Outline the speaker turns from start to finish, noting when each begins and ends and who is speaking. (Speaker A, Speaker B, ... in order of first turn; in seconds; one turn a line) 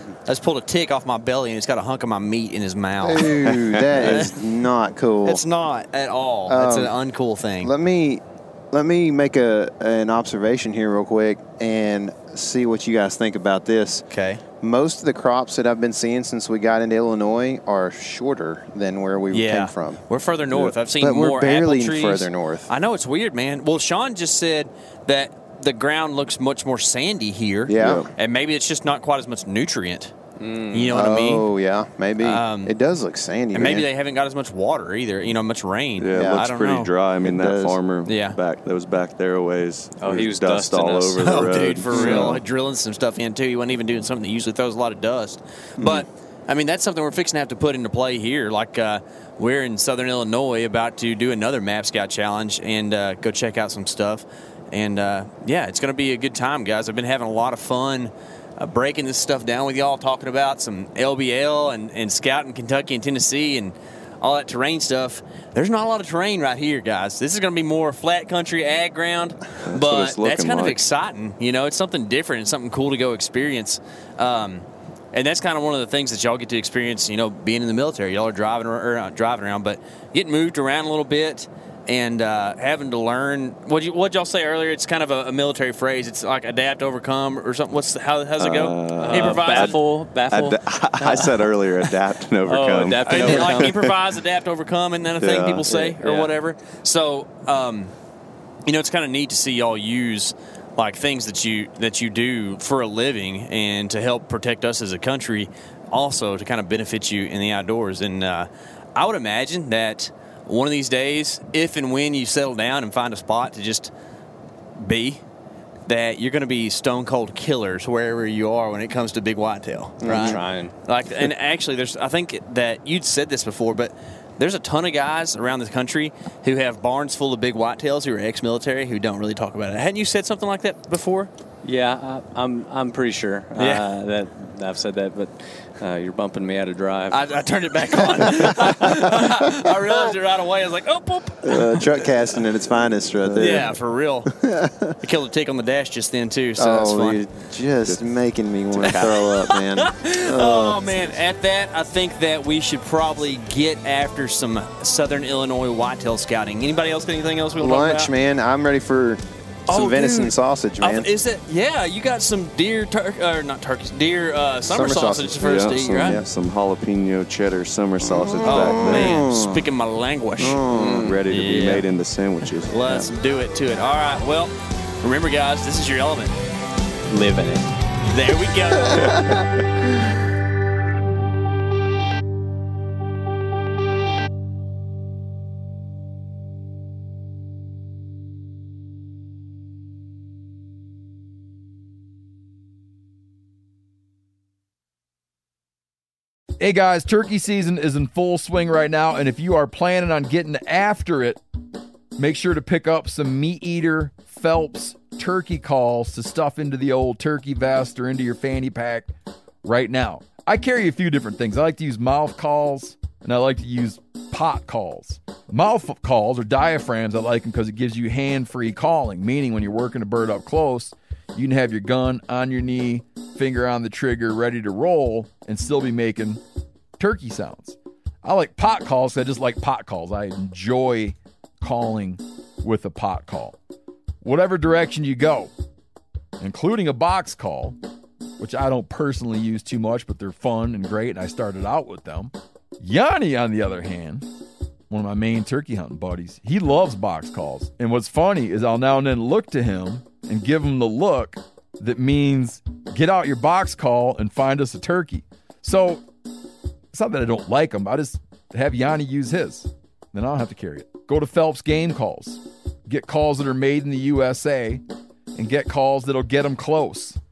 Speaker A: 0.2-4.4
Speaker B: 3.0-5.4
Speaker A: 5.2-7.7
Speaker B: 6.5-7.0
Speaker B: 7.6-14.0
Speaker A: 14.1-14.4
Speaker B: 14.6-20.0
Speaker A: 19.3-30.1
Speaker B: 20.5-22.7
Speaker B: 27.7-28.0
Speaker C: 27.8-28.1
Speaker D: 30.4-31.0
Speaker A: 30.7-31.5
Speaker B: 30.9-33.9
Speaker A: 32.2-32.7
Speaker A: 33.5-36.9
Speaker C: 36.0-42.4
Speaker B: 36.1-36.4
Speaker B: 37.2-37.8
Speaker A: 38.0-38.4
Speaker D: 40.0-41.5
Speaker A: 41.2-89.8
Speaker B: 41.9-42.4
Speaker B: 45.8-46.0
Speaker C: 69.7-70.8
Speaker C: 88.4-89.8
Speaker D: 89.0-91.5
Speaker C: 90.3-93.9
Speaker D: 92.4-93.8
Speaker A: 93.0-97.9
Speaker C: 95.2-96.2
Speaker A: 98.7-113.9
Speaker A: 114.8-115.2
Speaker A: 115.9-131.3
Speaker B: 120.0-120.4
Speaker D: 120.0-120.7
Speaker D: 131.6-137.2
Speaker A: 133.6-133.9
Speaker A: 137.1-142.1
Speaker B: 138.4-139.7
Speaker B: 141.4-144.9
Speaker C: 143.2-143.7
Speaker A: 143.4-144.3
Speaker A: 145.0-147.2
Speaker B: 146.6-150.9
Speaker C: 148.8-149.2
Speaker A: 148.8-158.1
Speaker B: 157.6-161.1
Speaker A: 159.7-166.2
Speaker B: 164.7-166.3
Speaker C: 165.4-169.2
Speaker B: 168.0-169.7
Speaker A: 168.4-170.6
Speaker B: 170.4-171.1
Speaker C: 170.7-173.1
Speaker D: 170.7-171.2
Speaker A: 171.3-171.8
Speaker A: 172.5-176.3
Speaker D: 177.1-177.7
Speaker A: 178.1-179.4
Speaker B: 178.9-179.3
Speaker E: 196.6-201.4
Speaker E: 202.2-209.1
Speaker E: 209.6-226.4
Speaker E: 227.0-233.6
Speaker E: 234.2-235.5
Speaker E: 236.4-237.8
Speaker E: 238.4-244.2
Speaker E: 244.9-256.0
Speaker E: 256.9-264.8
Speaker E: 265.3-267.2